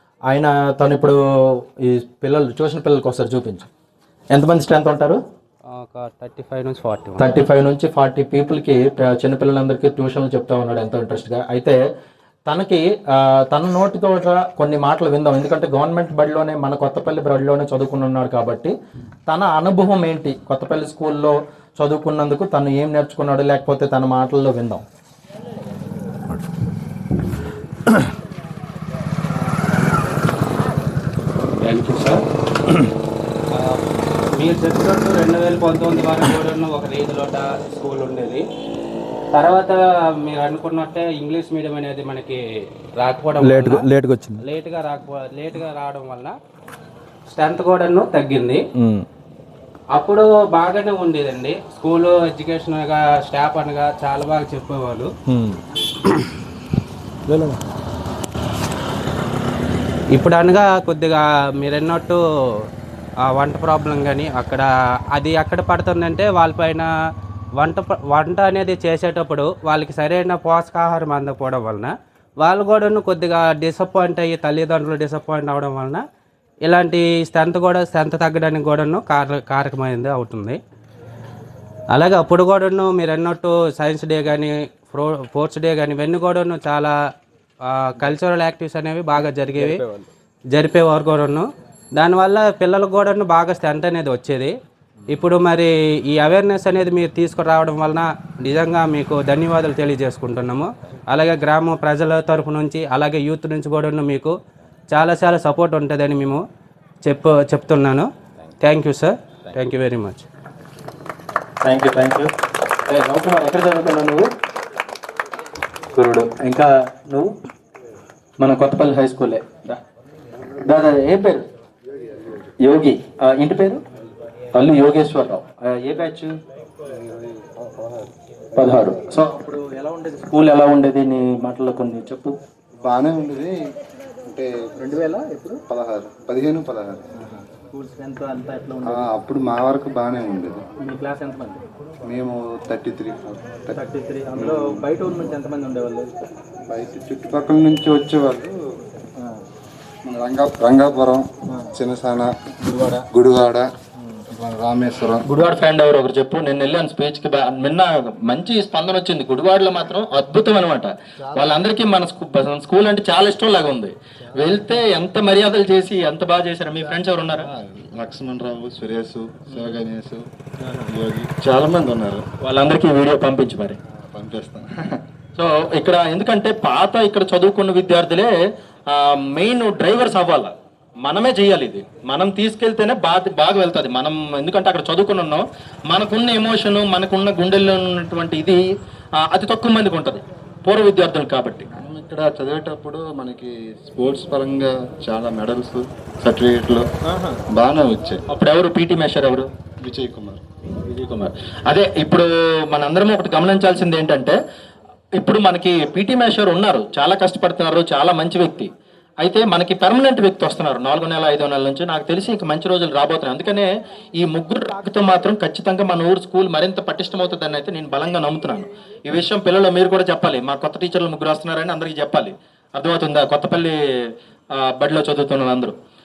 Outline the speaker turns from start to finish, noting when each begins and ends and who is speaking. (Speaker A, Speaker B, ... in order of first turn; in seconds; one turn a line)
Speaker A: 0.3-3.7
Speaker A: 4.3-5.2
Speaker B: 5.7-7.3
Speaker A: 7.2-11.8
Speaker A: 12.5-12.9
Speaker A: 13.5-18.7
Speaker A: 19.3-24.8
Speaker B: 31.6-32.2
Speaker B: 33.5-33.8
Speaker B: 34.3-38.4
Speaker B: 39.3-42.4
Speaker B: 43.0-43.9
Speaker A: 43.4-44.4
Speaker B: 44.4-46.3
Speaker B: 47.3-48.6
Speaker A: 48.8-49.0
Speaker B: 49.9-55.1
Speaker A: 55.3-55.6
Speaker A: 57.3-57.6
Speaker B: 60.1-62.6
Speaker B: 63.3-66.9
Speaker B: 67.6-76.0
Speaker B: 76.7-80.6
Speaker B: 81.9-86.9
Speaker B: 87.6-89.8
Speaker A: 89.6-89.9
Speaker B: 90.5-94.5
Speaker B: 95.1-104.3
Speaker B: 104.9-106.4
Speaker B: 107.0-108.1
Speaker B: 108.6-110.2
Speaker A: 111.6-112.3
Speaker A: 112.9-114.3
Speaker A: 115.9-117.3
Speaker A: 118.4-119.8
Speaker A: 120.6-121.4
Speaker A: 122.6-123.8
Speaker A: 124.5-126.3
Speaker C: 126.9-129.1
Speaker A: 128.6-132.3
Speaker C: 132.8-133.5
Speaker C: 134.2-134.7
Speaker A: 134.8-135.6
Speaker C: 135.7-137.0
Speaker A: 137.7-139.0
Speaker C: 138.8-140.6
Speaker A: 140.8-141.6
Speaker C: 142.0-143.8
Speaker A: 143.7-146.1
Speaker C: 144.5-144.7
Speaker C: 146.7-148.5
Speaker C: 150.1-152.3
Speaker A: 152.6-153.0
Speaker C: 153.1-153.7
Speaker C: 154.3-155.2
Speaker A: 155.2-167.5
Speaker C: 161.2-161.6
Speaker C: 164.3-164.8
Speaker C: 166.8-170.2
Speaker C: 170.9-172.2
Speaker A: 172.4-173.8
Speaker C: 173.9-175.0
Speaker A: 175.3-178.3
Speaker A: 178.9-180.5
Speaker A: 181.0-188.6
Speaker A: 189.2-191.7
Speaker C: 191.7-196.8
Speaker A: 197.1-197.3
Speaker C: 197.5-198.2
Speaker A: 198.3-199.5
Speaker C: 199.8-200.4
Speaker A: 200.8-204.4
Speaker A: 205.2-208.7
Speaker A: 209.2-223.8
Speaker A: 224.5-225.7